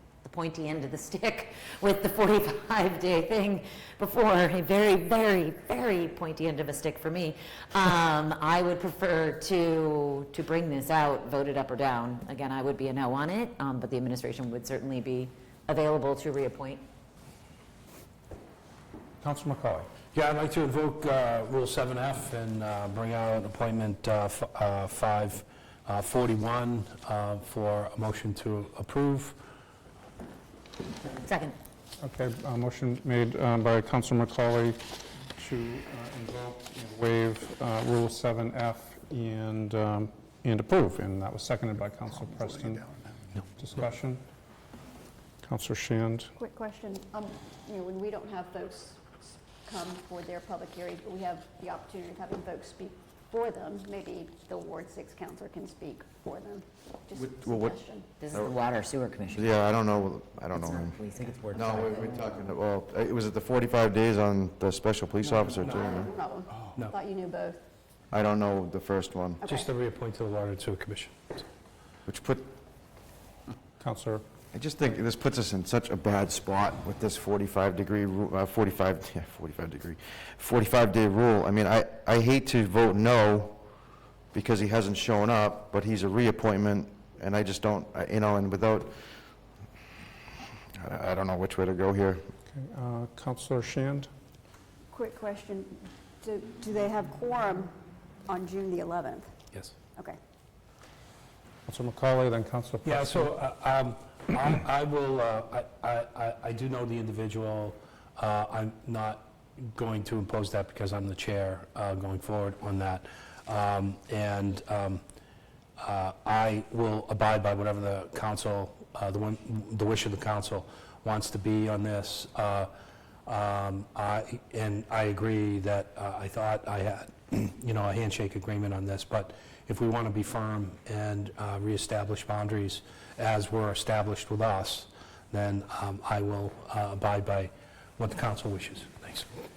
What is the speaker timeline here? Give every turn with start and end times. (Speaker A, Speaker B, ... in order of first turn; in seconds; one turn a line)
Speaker A: 0.2-16.8
Speaker B: 19.2-19.9
Speaker C: 20.1-29.4
Speaker A: 31.2-31.5
Speaker B: 32.0-42.9
Speaker B: 43.5-44.2
Speaker B: 45.4-46.3
Speaker D: 46.4-58.1
Speaker E: 57.1-57.8
Speaker A: 58.2-59.5
Speaker E: 59.3-61.0
Speaker A: 60.5-62.3
Speaker E: 61.5-66.1
Speaker D: 65.6-67.6
Speaker E: 68.1-69.4
Speaker D: 69.4-69.7
Speaker C: 69.5-71.4
Speaker E: 72.0-72.5
Speaker B: 73.8-74.2
Speaker E: 74.5-83.6
Speaker E: 84.3-89.0
Speaker E: 90.8-92.2
Speaker B: 92.5-94.1
Speaker D: 94.9-97.7
Speaker D: 98.2-99.3
Speaker B: 101.7-103.3
Speaker C: 102.8-115.0
Speaker C: 115.8-122.7
Speaker C: 123.2-139.3